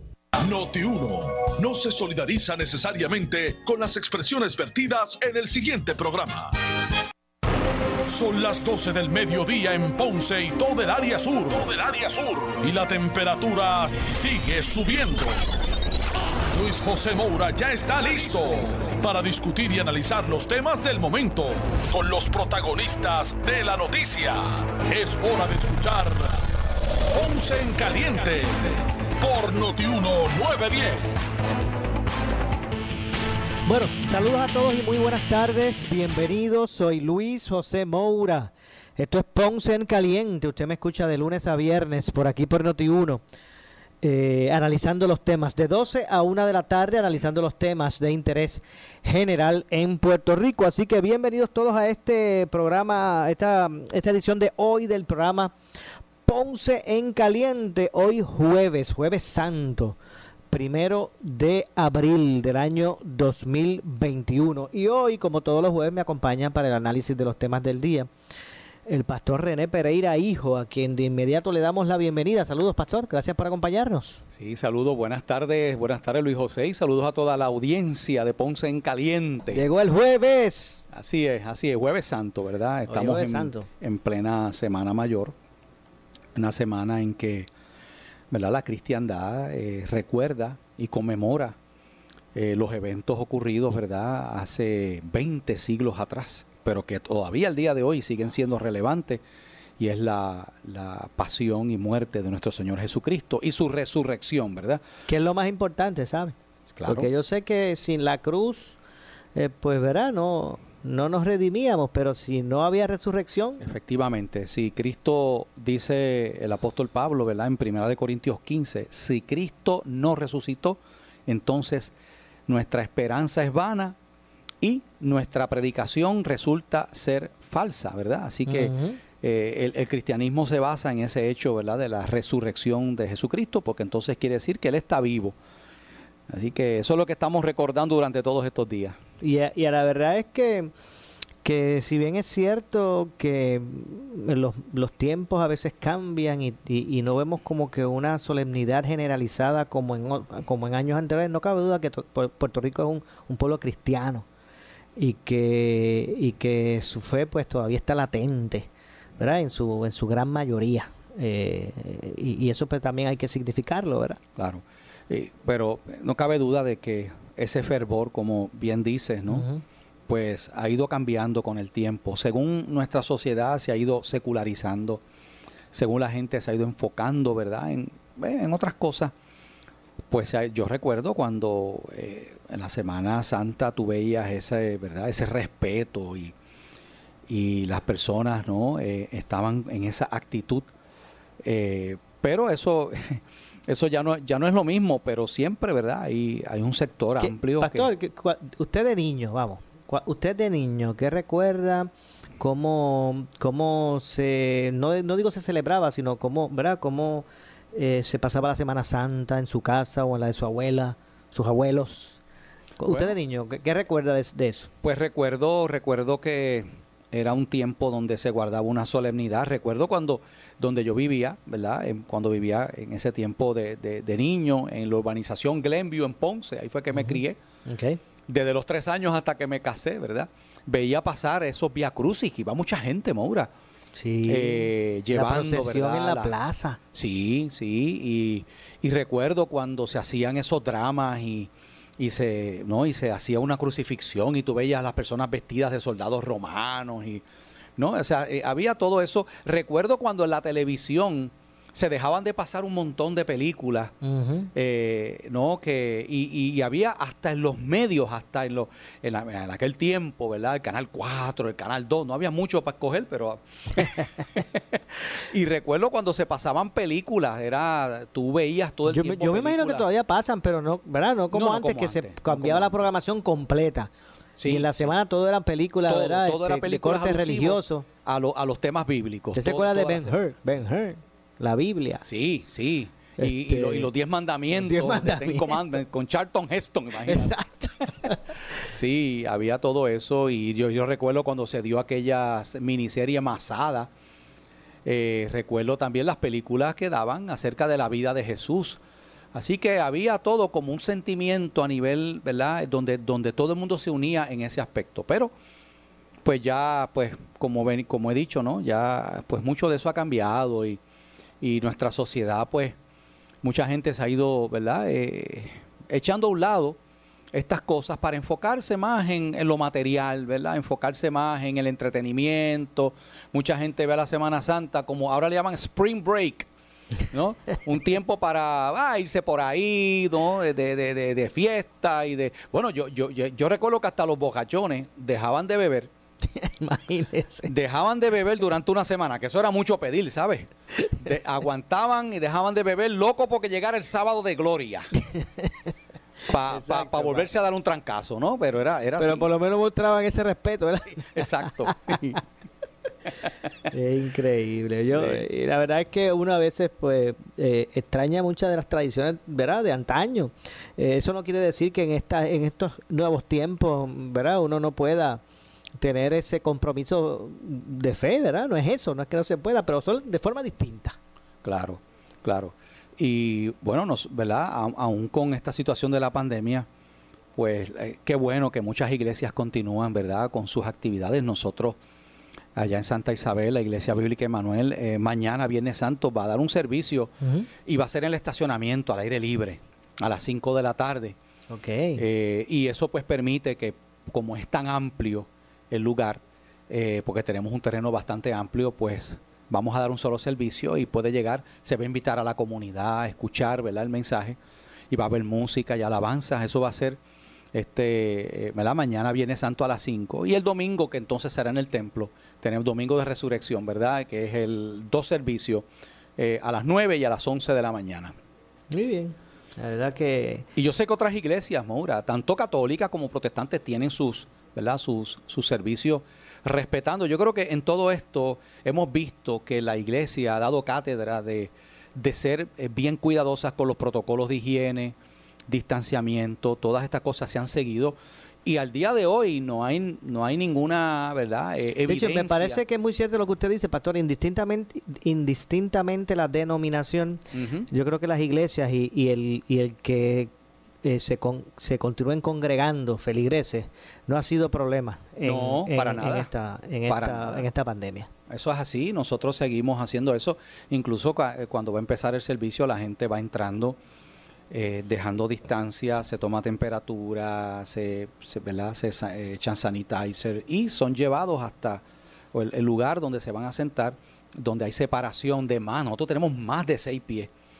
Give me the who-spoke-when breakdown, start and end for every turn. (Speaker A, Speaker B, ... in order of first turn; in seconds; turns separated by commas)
Speaker A: 0.4-6.6, Speaker A: 8.1-15.4, Speaker A: 16.5-26.4, Speaker A: 27.1-31.1, Speaker B: 33.7-43.2, Speaker B: 44.0-55.5, Speaker B: 56.2-60.0, Speaker B: 60.5-68.1, Speaker B: 68.9-74.2, Speaker C: 74.4-79.7, Speaker B: 79.5-80.8, Speaker C: 80.9-85.3, Speaker B: 82.9-83.7, Speaker C: 86.3-87.5, Speaker C: 88.3-91.6, Speaker C: 92.3-99.2, Speaker C: 99.8-104.8, Speaker B: 105.1-106.3, Speaker C: 106.7-107.1, Speaker B: 106.9-108.8, Speaker B: 109.3-113.6, Speaker C: 113.6-121.9, Speaker C: 122.5-124.0, Speaker C: 124.6-135.4, Speaker B: 128.5-129.0, Speaker C: 136.3-139.0, Speaker B: 139.2-140.7, Speaker B: 141.4-154.3, Speaker B: 155.0-164.2, Speaker C: 164.4-169.5, Speaker B: 169.3-169.6, Speaker C: 170.1-175.0, Speaker C: 175.7-179.1, Speaker C: 180.1-186.3, Speaker C: 187.3-190.7, Speaker C: 191.4-197.9, Speaker B: 197.2-212.2, Speaker B: 212.8-214.7, Speaker C: 212.9-213.1, Speaker C: 214.8-227.4, Speaker B: 226.9-228.0, Speaker C: 228.3-233.5, Speaker B: 233.9-236.8, Speaker C: 234.3-236.4, Speaker C: 236.9-247.2, Speaker C: 247.8-253.9, Speaker B: 254.0-254.5, Speaker C: 254.6-269.9, Speaker B: 268.9-273.9, Speaker C: 271.3-272.9, Speaker C: 274.4-274.9, Speaker B: 274.4-277.9, Speaker C: 275.9-280.2, Speaker B: 279.4-282.1, Speaker C: 282.0-287.3, Speaker B: 283.2-283.9, Speaker B: 284.5-285.8, Speaker B: 287.1-288.2, Speaker C: 288.6-293.9, Speaker C: 294.9-298.8, Speaker C: 299.3-305.3, Speaker C: 306.2-310.8, Speaker C: 311.4-312.8, Speaker C: 313.4-316.8, Speaker C: 317.3-326.5, Speaker C: 327.1-335.9, Speaker B: 336.4-337.5, Speaker C: 337.5-344.9, Speaker B: 345.1-345.5, Speaker C: 346.3-349.3, Speaker B: 346.5-347.3, Speaker B: 349.0-352.0, Speaker C: 351.0-352.2, Speaker B: 353.7-365.2, Speaker C: 354.9-355.2, Speaker B: 365.8-371.0, Speaker C: 371.4-376.7, Speaker C: 377.4-381.8, Speaker C: 382.6-391.2, Speaker B: 387.2-387.5, Speaker B: 391.5-392.0, Speaker C: 392.0-404.4, Speaker C: 404.9-407.0, Speaker C: 407.5-415.7, Speaker C: 416.2-418.2, Speaker B: 418.7-420.5, Speaker C: 420.6-435.0, Speaker C: 435.5-442.6, Speaker B: 441.9-450.3, Speaker C: 447.3-447.7, Speaker B: 450.8-458.1, Speaker C: 455.2-456.3, Speaker C: 456.9-457.5, Speaker C: 458.3-463.8, Speaker C: 464.5-471.8, Speaker C: 472.3-477.3